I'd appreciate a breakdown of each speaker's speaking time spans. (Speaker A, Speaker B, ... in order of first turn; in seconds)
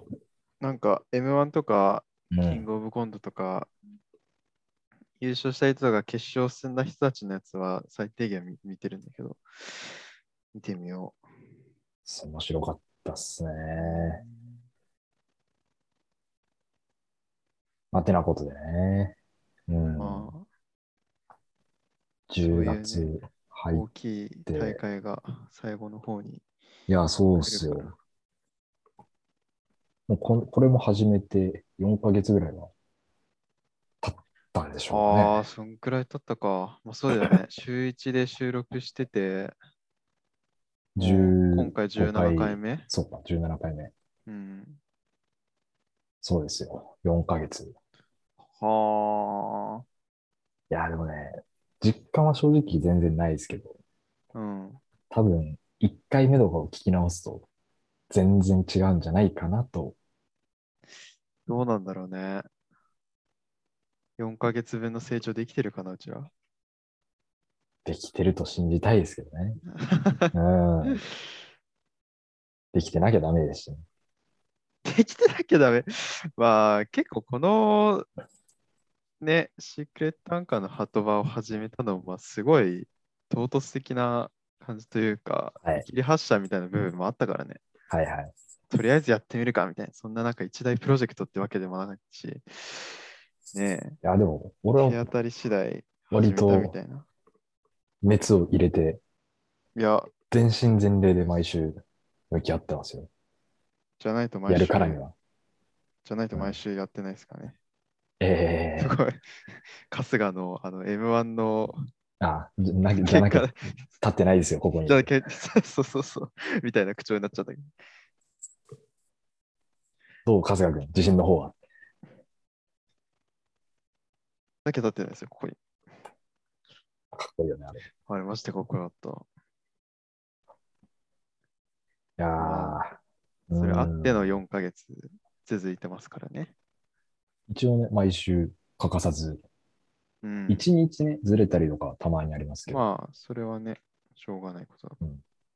Speaker A: 0.6-3.7, 5.2-10.0, 10.5-11.2, 13.8-14.6, 20.0-20.5, 22.4-23.1, 23.7-26.4, 27.4-27.9, 34.9-39.5, 41.0-42.9, 44.3-44.8, 48.5-49.8, 54.3-54.8, 61.5-62.5, 64.2-66.3, 69.7-70.3, 74.8-78.1, 79.2-87.6, 88.7-94.0, 94.8-97.1, 99.8-100.1, 104.0-105.0, 106.0-107.6, 108.8-111.8, 113.0-113.6, 114.9-117.7, 124.7-125.6, 128.1-129.3, 132.4-132.8, 133.6-136.5, 140.2-140.7, 142.7-145.0
Speaker B: 2.3-2.7, 12.1-14.2, 17.9-19.1, 19.7-20.3, 22.3-23.9, 24.5-24.8, 26.9-27.9, 30.1-32.7, 34.0-35.5, 41.0-43.9, 46.2-47.7, 50.7-53.8, 55.1-57.5, 58.1-60.0, 67.8-69.6, 70.3-71.0, 72.7-73.8, 87.9-88.3, 94.0-95.0, 96.1-96.7, 98.0-99.0, 100.3-103.1, 104.5-105.1, 108.2-109.0, 112.2-113.5, 114.0-115.1, 120.3-121.5, 127.1-127.8, 132.2-133.0, 133.5-134.4, 137.5-139.4, 140.5-142.8